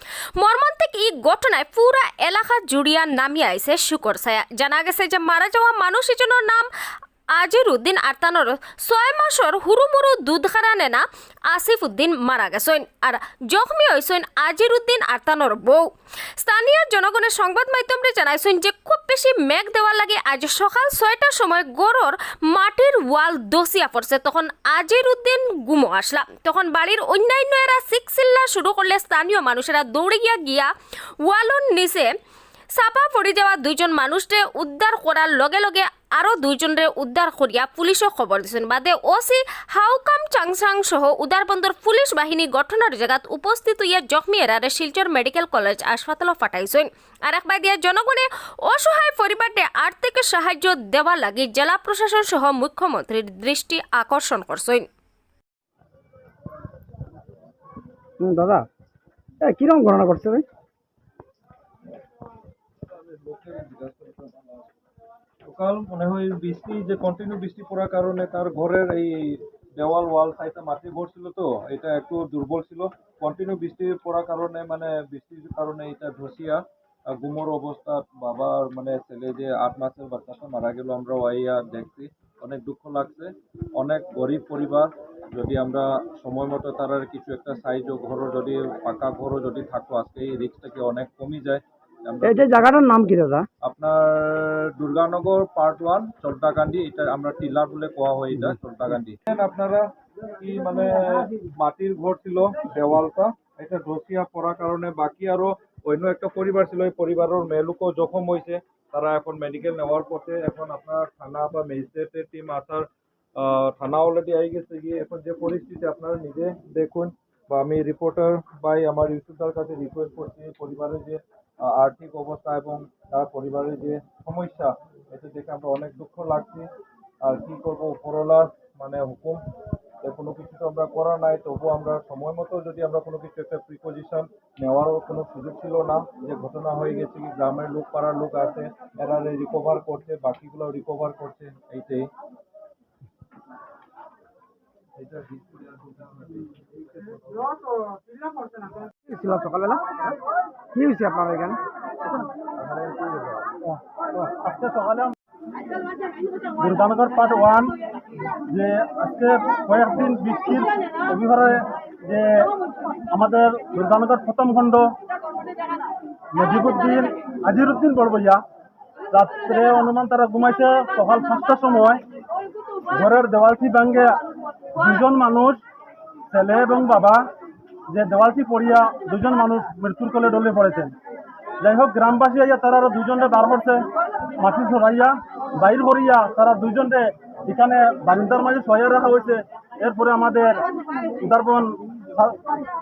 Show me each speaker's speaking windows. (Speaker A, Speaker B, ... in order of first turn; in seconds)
Speaker A: 0.3-6.7, 7.3-15.9, 16.4-30.7, 31.2-32.1, 32.8-54.9
Speaker B: 58.2-58.7, 59.4-60.4, 92.2-93.5, 149.1-149.8, 150.7-151.6
Speaker C: 62.9-64.7, 65.4-92.7, 93.6-126.7, 127.2-129.4, 130.0-142.1, 144.9-147.5, 152.6-153.4
Speaker D: 153.6-155.1, 156.6-157.8, 158.5-162.5, 163.1-164.9, 166.3-168.4, 169.1-172.0, 172.9-174.2, 174.7-175.6, 176.3-177.2, 177.9-180.9, 181.6-183.8, 184.3-190.7, 191.2-192.6